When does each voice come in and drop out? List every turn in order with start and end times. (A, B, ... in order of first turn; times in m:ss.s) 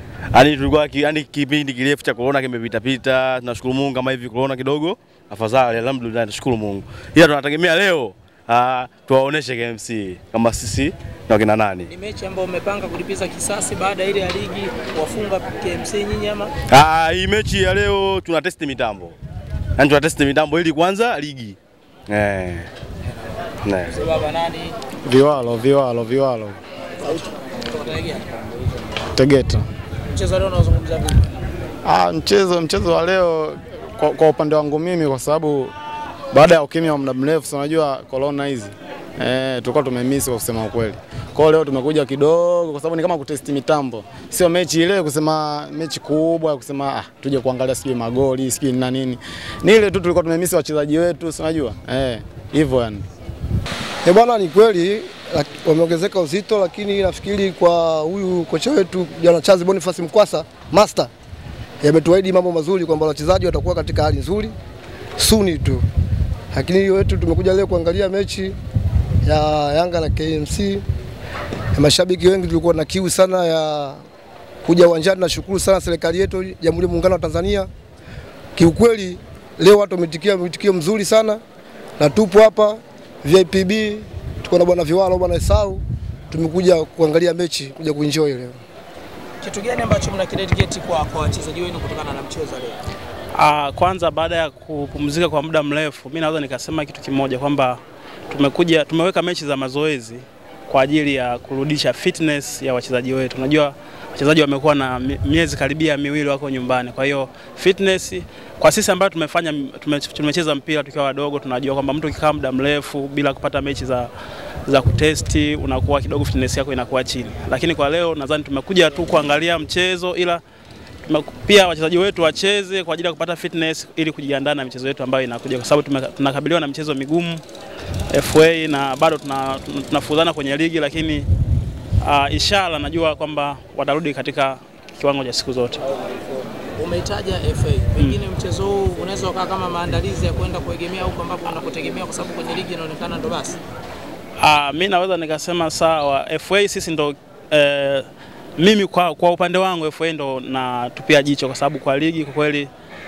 0:00.3-0:11.9 A
0:11.9-0:16.5 B
0:16.7-0:19.2 A
0:19.8-0:21.6 A
0:22.1-0:22.7 A
0:23.6-0:23.9 A
0:23.9-0:24.8 B
0:25.0-0:26.6 C
0:27.0-0:28.3 B
0:29.1-0:29.7 C
0:30.1-0:31.3 B
0:31.8-0:35.7 C
0:36.3-0:53.0 C
0:54.0-1:01.1 D
1:01.8-1:04.5 D
1:05.2-1:05.8 D
1:06.5-1:08.6 D
1:09.2-1:10.8 D
1:11.7-1:14.0 D
1:14.6-1:17.7 D
1:18.6-1:21.4 D
1:22.0-1:28.6 D
1:29.4-1:32.8 B
1:33.4-1:54.1 E
1:54.7-2:00.4 E
2:01.1-2:07.4 E
2:08.1-2:11.3 E
2:12.0-2:15.9 E
2:16.0-2:23.6 B
2:24.4-2:28.1 E
2:28.6-2:32.7 E